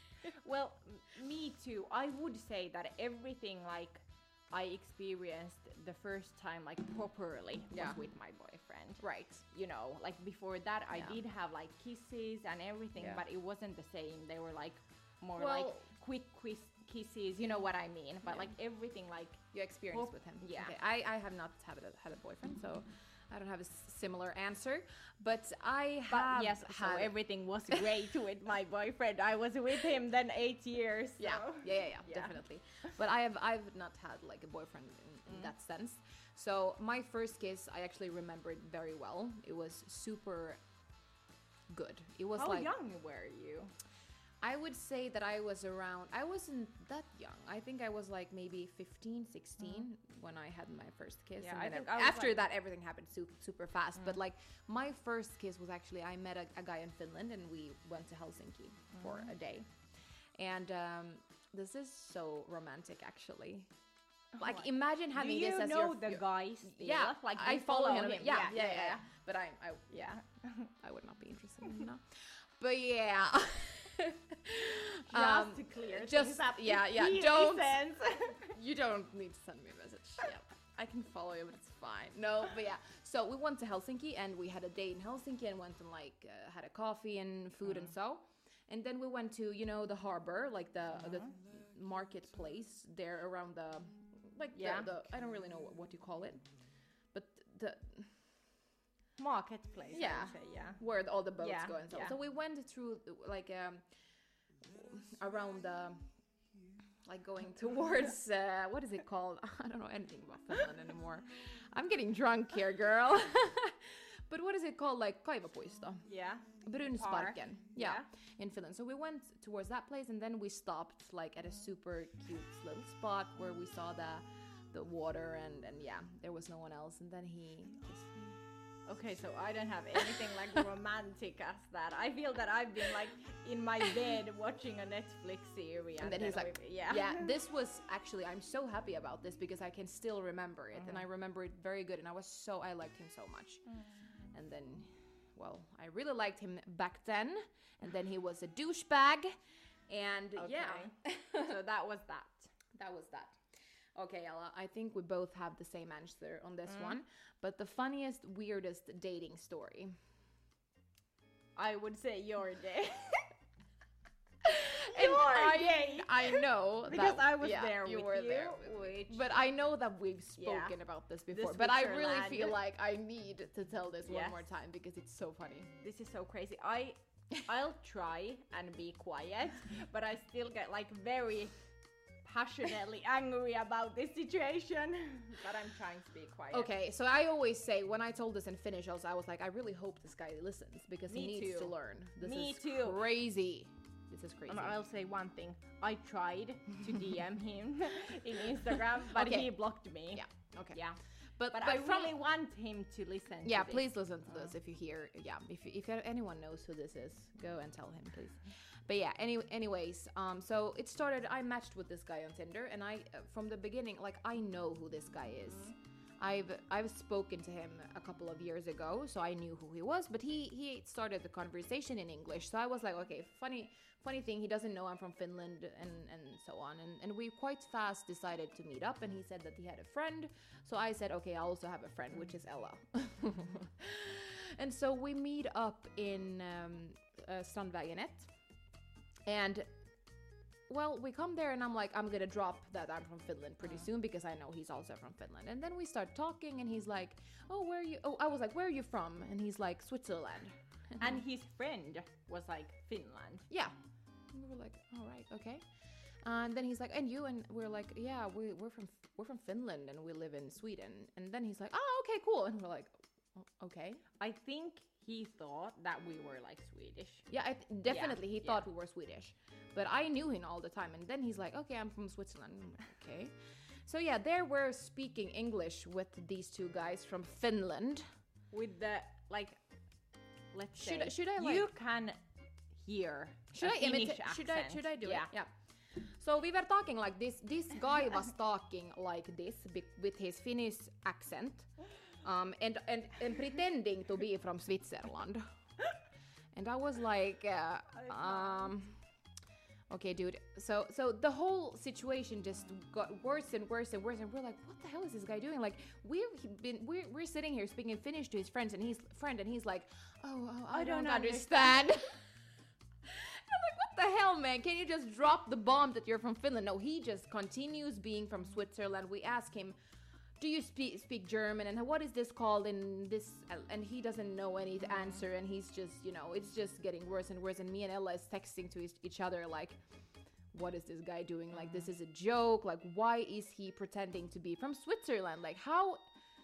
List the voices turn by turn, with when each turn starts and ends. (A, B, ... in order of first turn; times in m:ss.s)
0:00.2-0:20.8 A
0:07.7-0:08.0 B
0:09.0-0:09.4 B
0:10.9-0:11.2 B
0:13.0-0:13.2 B
0:15.4-0:15.9 B
0:18.3-0:18.5 B
0:19.5-0:27.2 B
0:26.1-0:32.4 A
0:27.7-0:28.0 B
0:31.2-0:40.6 B
0:41.7-0:42.7 B
0:42.4-0:43.7 A
0:44.4-0:59.7 B
0:51.4-0:52.4 A
0:58.9-0:59.3 A
1:00.4-1:03.7 B
1:04.4-1:09.0 A
1:04.4-1:10.1 B
1:09.9-1:10.7 A
1:10.8-1:36.4 B
1:15.1-1:18.6 A
1:27.7-1:27.9 A
1:31.0-1:31.3 A
1:34.6-1:34.9 A
1:37.1-1:38.1 B
1:39.2-1:40.8 A
1:39.9-1:43.8 B
1:41.4-1:42.2 A
1:44.6-1:46.0 B
1:47.0-1:56.0 B
1:56.1-1:58.1 A
1:56.6-2:08.4 B
2:08.9-2:17.3 A
2:16.0-2:23.6 B
2:20.8-2:21.0 A
2:24.3-2:29.3 B
2:29.9-2:31.5 B
2:30.3-2:32.5 A
2:32.7-2:33.4 B
2:34.0-2:39.9 B
2:36.7-2:37.0 A
2:41.6-2:43.3 A
2:44.4-2:55.7 B
2:44.7-2:49.3 A
2:50.4-2:50.8 A
2:51.3-2:52.6 A
2:54.1-2:54.4 A
2:55.8-3:01.5 A
3:02.2-3:06.7 A
3:06.5-3:14.8 B
3:11.1-3:13.0 A
3:14.5-3:21.0 A
3:19.0-3:19.6 B
3:20.1-3:20.8 B
3:21.4-3:22.2 B
3:21.5-3:24.5 A
3:23.4-3:58.3 B
3:59.3-3:59.7 B
4:00.7-4:11.2 B
4:11.0-4:13.5 A
4:13.5-4:13.8 B
4:14.3-4:15.6 B
4:16.2-4:24.0 B
4:24.2-4:27.3 A
4:27.3-4:33.3 B
4:27.9-4:28.6 A
4:33.8-4:38.0 B
4:38.5-4:39.6 A
4:40.5-4:42.2 A
4:40.8-4:41.7 B
4:42.7-4:45.3 A
4:43.5-4:51.7 B
4:52.2-4:55.4 B
4:56.5-4:59.0 B
4:57.9-4:58.7 A
4:59.9-5:12.2 B
5:10.7-5:12.0 A
5:13.0-5:19.8 B
5:20.4-5:29.8 B
5:30.5-5:36.0 B
5:31.6-5:31.9 A